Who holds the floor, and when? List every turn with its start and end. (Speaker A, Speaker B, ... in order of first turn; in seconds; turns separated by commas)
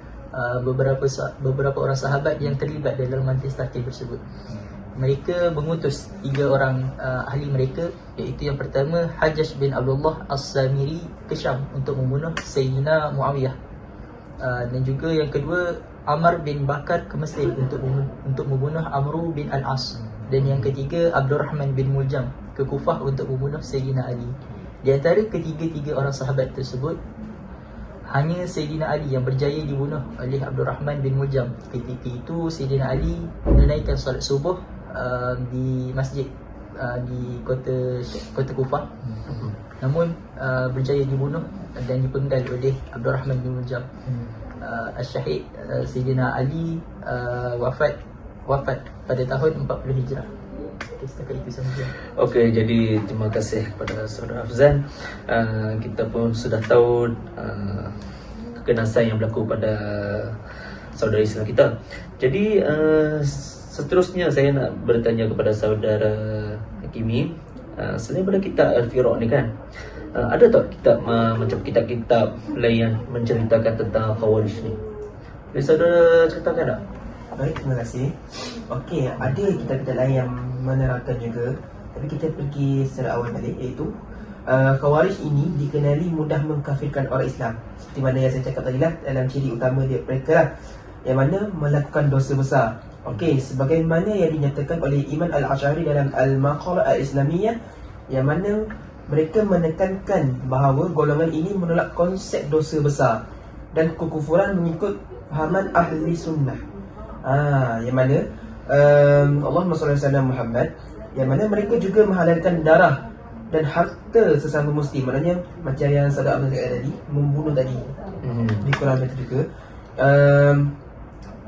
Speaker A: 0.3-4.2, Speaker A: 5.0-13.5, Speaker A: 14.4-27.0, Speaker B: 20.4-20.7, Speaker A: 28.1-38.9, Speaker B: 39.2-39.5, Speaker A: 39.8-43.9, Speaker A: 44.6-50.3, Speaker A: 51.0-51.9, Speaker B: 52.2-57.9, Speaker B: 58.5-60.4, Speaker B: 61.0-69.5, Speaker B: 70.1-74.8, Speaker B: 75.5-76.8, Speaker C: 77.3-83.9, Speaker C: 84.5-90.5, Speaker C: 91.0-97.5, Speaker C: 98.1-103.2, Speaker C: 103.7-106.6, Speaker C: 107.2-117.9, Speaker B: 118.2-118.7, Speaker C: 118.6-119.4, Speaker C: 120.0-120.7